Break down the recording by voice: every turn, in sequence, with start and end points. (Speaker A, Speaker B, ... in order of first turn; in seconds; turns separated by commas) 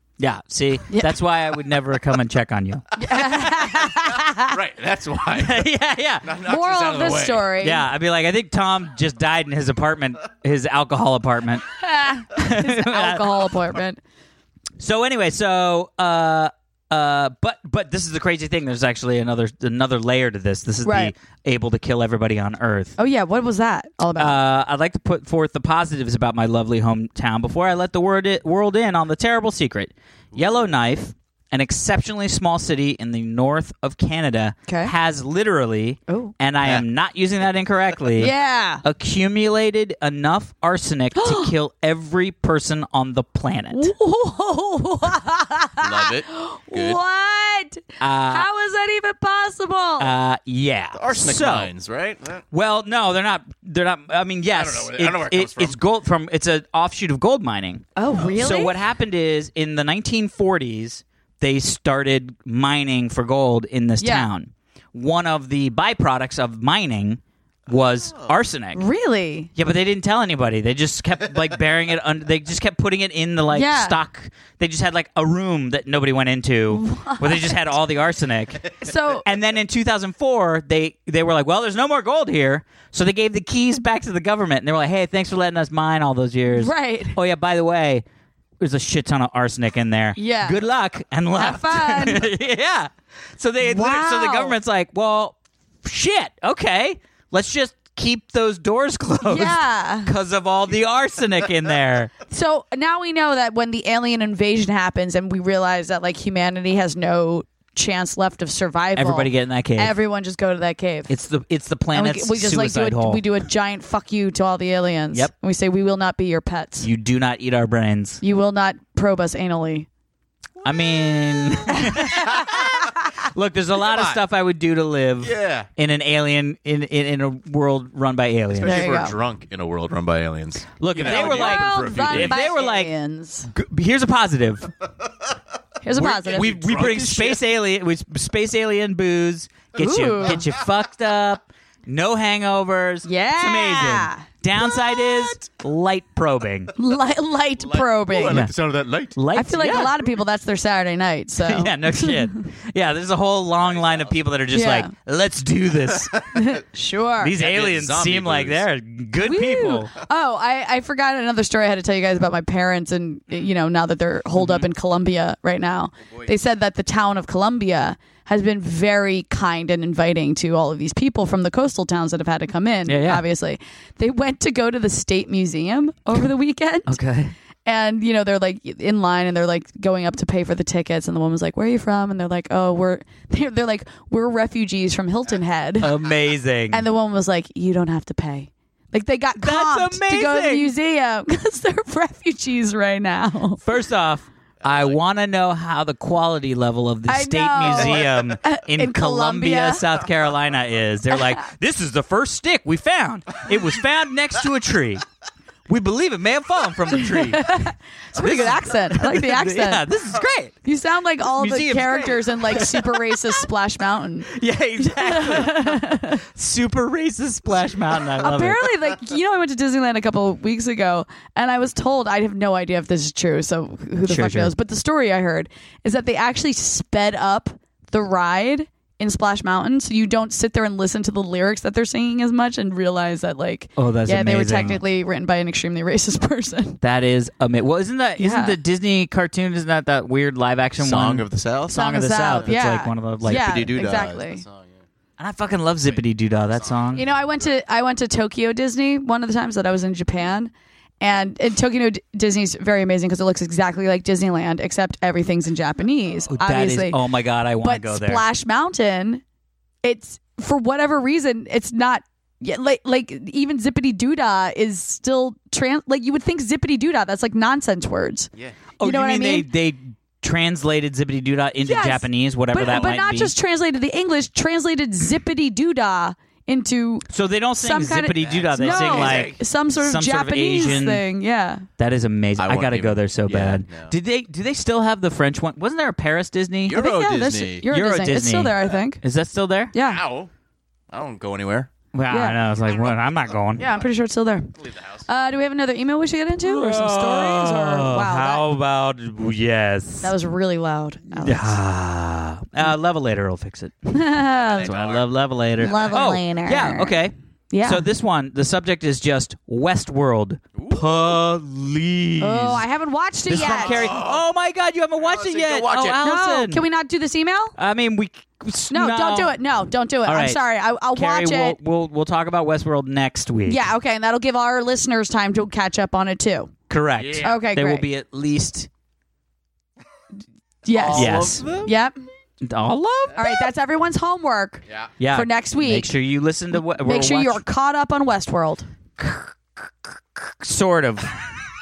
Speaker A: 0.2-3.5, Speaker B: 0.9-1.1, Speaker B: 3.0-4.5, Speaker C: 4.4-5.7, Speaker A: 5.3-6.3, Speaker C: 6.2-7.5, Speaker B: 6.4-7.9, Speaker A: 7.6-11.7, Speaker B: 11.8-14.0, Speaker A: 12.2-13.2, Speaker A: 14.8-22.9, Speaker B: 20.8-21.1, Speaker B: 23.0-24.4, Speaker A: 24.2-43.9, Speaker B: 34.7-34.9, Speaker B: 36.1-36.3, Speaker B: 38.2-38.8, Speaker B: 41.1-41.5, Speaker B: 43.7-50.1, Speaker C: 45.8-47.0, Speaker A: 48.0-48.5, Speaker A: 50.0-51.7, Speaker C: 51.0-52.4, Speaker A: 52.5-68.8, Speaker C: 54.5-55.8, Speaker B: 58.0-58.8, Speaker B: 64.0-64.3, Speaker C: 68.0-68.3, Speaker B: 68.8-69.5, Speaker A: 69.6-78.6, Speaker B: 73.5-74.0, Speaker B: 76.7-77.6, Speaker B: 78.8-79.2, Speaker A: 79.2-88.0, Speaker B: 86.5-87.2, Speaker A: 88.6-102.1, Speaker B: 90.2-90.6, Speaker B: 91.3-92.3, Speaker B: 93.6-94.6, Speaker B: 99.3-100.1, Speaker B: 102.3-111.1, Speaker A: 109.0-110.0, Speaker A: 111.1-113.2, Speaker B: 111.9-116.9, Speaker A: 116.8-118.2, Speaker B: 118.2-119.9, Speaker C: 120.6-121.7, Speaker A: 120.6-128.9, Speaker B: 121.7-123.0, Speaker C: 122.3-122.7, Speaker C: 123.8-124.2, Speaker C: 125.2-125.7, Speaker C: 128.5-132.4, Speaker B: 128.7-129.1, Speaker A: 130.8-132.9, Speaker B: 131.0-133.5, Speaker A: 133.5-134.7, Speaker B: 135.8-136.6, Speaker A: 135.9-146.7, Speaker C: 136.2-137.4, Speaker B: 139.8-140.4, Speaker B: 143.1-144.3, Speaker C: 145.1-145.4, Speaker B: 146.8-148.4, Speaker C: 147.6-149.2, Speaker A: 148.3-148.5, Speaker A: 149.2-149.9, Speaker B: 149.3-152.5, Speaker A: 151.4-156.2, Speaker C: 153.7-154.1, Speaker B: 154.5-154.9, Speaker B: 156.3-157.3, Speaker A: 157.2-159.9, Speaker C: 157.4-158.6, Speaker B: 159.2-177.0, Speaker A: 164.4-164.7, Speaker A: 172.9-173.2, Speaker A: 176.9-177.3, Speaker B: 177.7-185.9, Speaker A: 185.8-186.9, Speaker B: 186.7-193.6, Speaker A: 189.4-190.7, Speaker A: 193.6-205.0, Speaker B: 197.1-199.8, Speaker B: 201.1-201.4, Speaker A: 205.7-207.6, Speaker B: 207.0-209.8, Speaker A: 208.1-210.6, Speaker B: 210.6-216.2, Speaker A: 211.2-213.2, Speaker A: 214.3-218.6, Speaker B: 218.2-236.8, Speaker A: 224.1-224.5, Speaker A: 233.8-234.8, Speaker A: 236.8-243.7, Speaker B: 238.2-238.6, Speaker C: 240.8-241.8, Speaker B: 241.7-244.4, Speaker C: 242.3-242.5, Speaker C: 243.2-244.8, Speaker A: 245.2-247.1, Speaker B: 246.9-257.0, Speaker A: 256.3-258.2, Speaker B: 257.6-259.2, Speaker B: 259.8-268.3, Speaker B: 268.8-269.5, Speaker A: 268.8-273.3, Speaker B: 271.6-277.1, Speaker A: 277.1-281.0, Speaker B: 277.6-281.7, Speaker C: 278.2-279.4, Speaker A: 281.8-286.8, Speaker C: 282.4-283.9, Speaker C: 286.7-287.6, Speaker B: 286.7-289.0, Speaker A: 287.7-289.7, Speaker B: 289.7-290.0, Speaker C: 289.8-290.3, Speaker C: 290.9-291.7, Speaker A: 291.9-293.7, Speaker B: 292.1-292.4, Speaker C: 292.8-293.1, Speaker B: 293.6-294.5, Speaker C: 294.6-295.0, Speaker B: 295.1-298.4, Speaker A: 296.4-300.1, Speaker B: 300.0-301.6, Speaker A: 301.2-303.9, Speaker B: 303.9-304.7, Speaker C: 304.4-305.1, Speaker A: 304.6-312.6, Speaker C: 305.6-306.1, Speaker B: 305.6-306.9, Speaker B: 307.5-307.9, Speaker C: 310.5-311.1, Speaker B: 312.2-313.9, Speaker A: 313.3-316.6, Speaker C: 313.4-314.2, Speaker C: 315.0-316.0, Speaker B: 316.0-317.6, Speaker A: 317.6-319.4, Speaker B: 318.7-321.6, Speaker A: 320.1-320.4, Speaker A: 320.9-323.6, Speaker B: 323.5-326.5, Speaker A: 326.7-328.7, Speaker C: 327.0-327.3, Speaker B: 327.2-327.9, Speaker B: 330.6-332.0, Speaker C: 330.7-331.7, Speaker A: 330.9-331.4, Speaker A: 332.4-333.3, Speaker B: 333.1-335.9, Speaker A: 335.0-337.4, Speaker B: 336.6-338.7, Speaker A: 339.0-341.4